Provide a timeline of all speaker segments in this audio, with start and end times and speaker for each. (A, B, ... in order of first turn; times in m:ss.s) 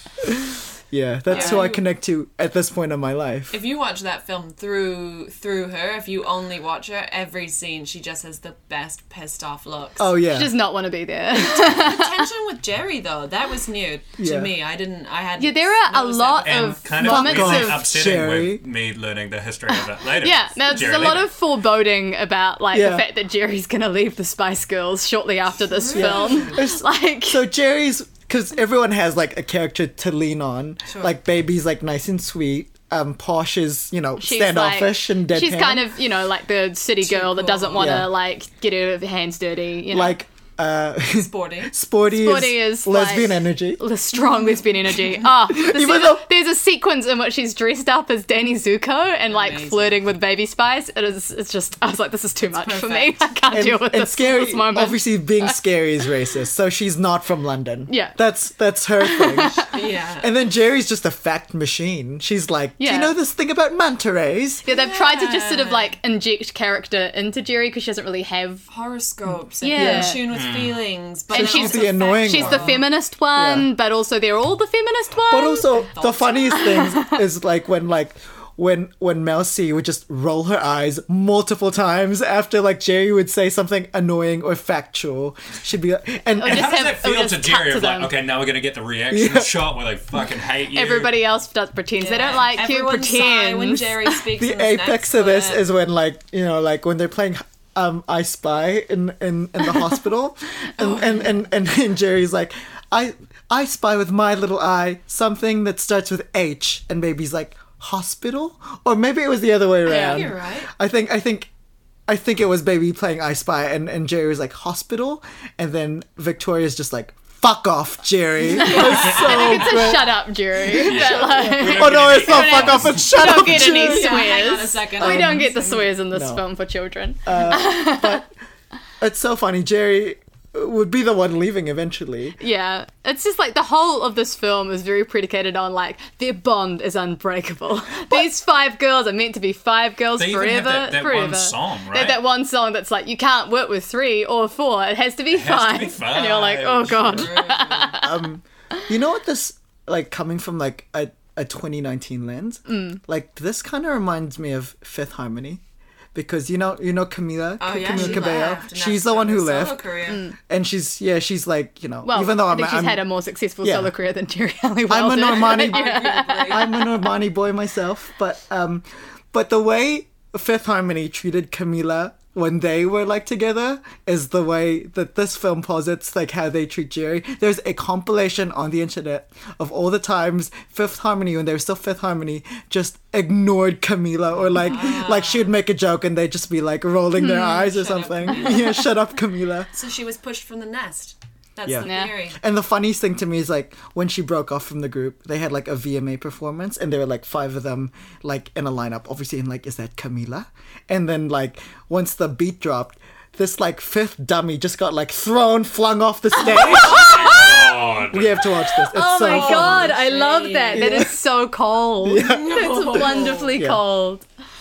0:00.2-0:03.6 A
0:01.3-0:01.8 B
0:01.3-0:01.7 C
0:03.5-0:10.1 B
0:10.0-0:10.6 A
0:10.3-0:12.2 C
0:11.3-0:16.9 B
0:14.2-0:14.5 A
0:15.4-0:17.8 C
0:16.4-0:21.3 D
0:17.0-0:18.6 A
0:19.7-0:27.4 C
0:22.7-0:23.1 A
0:25.7-0:26.6 B
0:25.9-0:35.8 A
0:30.9-0:31.1 B
0:34.2-0:40.2 C
0:37.0-0:38.0 B
0:37.8-0:38.1 A
0:39.9-0:43.8 A
0:41.2-0:41.7 B
0:42.1-0:55.5 C
0:45.5-0:46.3 A
0:49.3-0:50.0 B
0:52.5-0:53.2 B
0:53.5-0:59.7 A
0:57.9-0:58.2 C
0:59.0-0:59.7 C
0:59.6-1:00.3 B
1:00.2-1:04.6 A
1:02.8-1:03.2 C
1:04.6-1:08.7 C
1:04.7-1:05.9 B
1:08.7-1:12.8 B
1:09.6-1:10.3 C
1:09.7-1:10.2 A
1:10.3-1:10.9 D
1:11.3-1:15.8 C
1:11.3-1:13.7 A
1:15.3-1:26.9 A
1:15.9-1:16.8 B
1:16.6-1:17.1 C
1:26.4-1:28.1 C
1:26.4-1:31.2 D
1:29.1-1:29.5 A
1:30.7-1:34.1 C
1:32.0-1:35.6 B
1:34.4-1:51.5 A
1:49.9-1:50.3 C
1:49.9-1:50.7 B
1:52.1-2:05.5 A
1:58.5-2:00.0 B
1:58.5-2:08.2 C
1:59.1-1:59.5 D
2:00.8-2:03.7 D
2:03.7-2:06.0 B
2:06.1-2:06.4 A
2:07.2-2:08.3 A
2:09.0-2:12.4 A
2:12.4-2:28.2 C
2:20.2-2:22.2 D
2:25.3-2:27.4 D
2:27.1-2:28.1 B
2:28.0-2:35.6 A
2:32.7-2:33.0 C
2:36.1-2:43.0 A
2:37.6-2:40.2 B
2:40.1-2:40.4 C
2:42.0-2:47.0 C
2:43.6-2:43.9 A
2:44.9-2:45.9 A
2:45.2-2:47.0 B
2:46.5-3:09.7 A
3:04.5-3:05.5 B
3:07.2-3:07.7 C
3:07.4-3:08.9 B
3:08.4-3:08.7 C
3:09.7-3:12.4 B
3:11.6-3:30.0 A
3:11.8-3:12.1 C
3:26.4-3:27.6 C
3:26.5-3:28.5 D
3:26.8-3:27.3 B
3:28.8-3:34.2 C
3:29.2-3:31.0 B
3:30.7-3:31.1 A
3:32.0-3:33.8 A
3:32.3-3:33.6 B